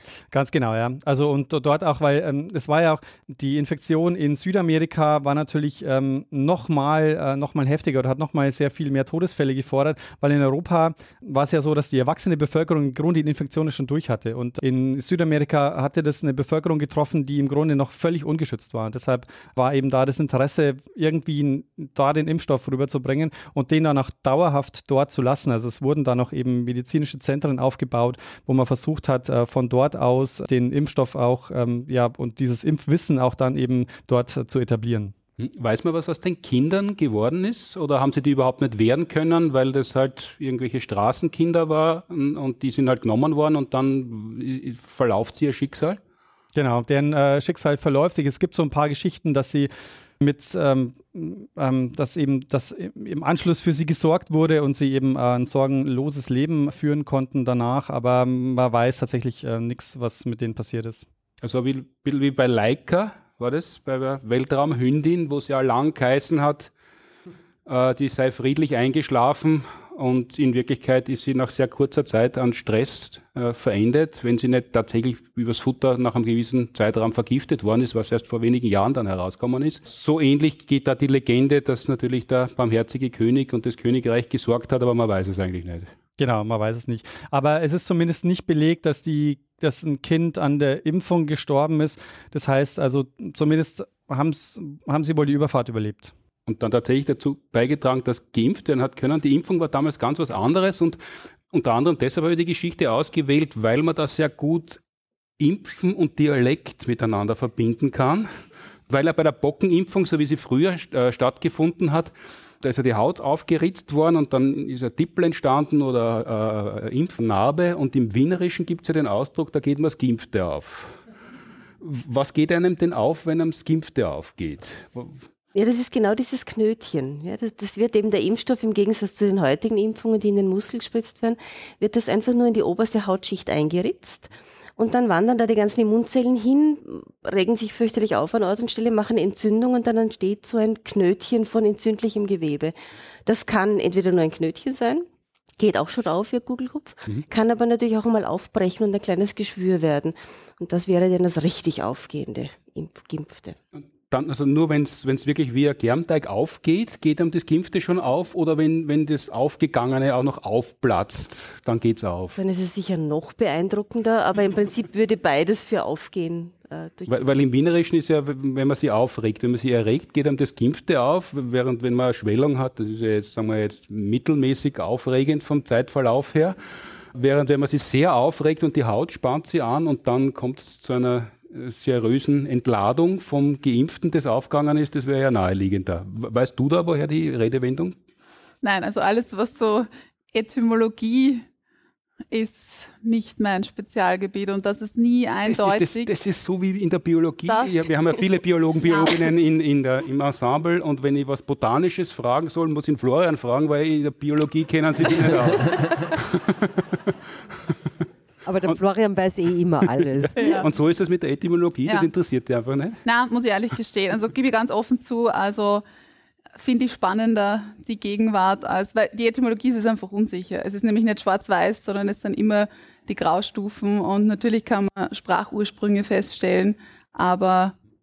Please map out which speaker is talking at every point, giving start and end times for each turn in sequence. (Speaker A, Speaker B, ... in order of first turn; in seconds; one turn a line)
Speaker A: 0.3-35.1
Speaker B: 35.4-46.0
Speaker A: 46.5-61.0
Speaker B: 61.4-66.7
Speaker B: 67.7-85.9
Speaker A: 86.2-96.1
Speaker B: 96.5-101.0
Speaker B: 101.5-104.8
Speaker B: 105.4-108.3
Speaker B: 108.9-121.0
Speaker B: 121.8-125.2
Speaker C: 125.5-142.7
Speaker C: 143.2-145.1
Speaker C: 145.6-153.6
Speaker B: 154.1-162.4
Speaker C: 162.3-167.1
Speaker B: 167.1-176.6
Speaker B: 177.1-187.9
Speaker D: 188.6-191.4
Speaker D: 192.3-196.1
Speaker B: 195.5-206.4
Speaker D: 197.5-197.8
Speaker D: 198.8-199.3
Speaker E: 208.4-210.6
Speaker D: 210.3-210.7
Speaker B: 210.5-213.0
Speaker D: 213.0-215.8
Speaker D: 216.6-227.7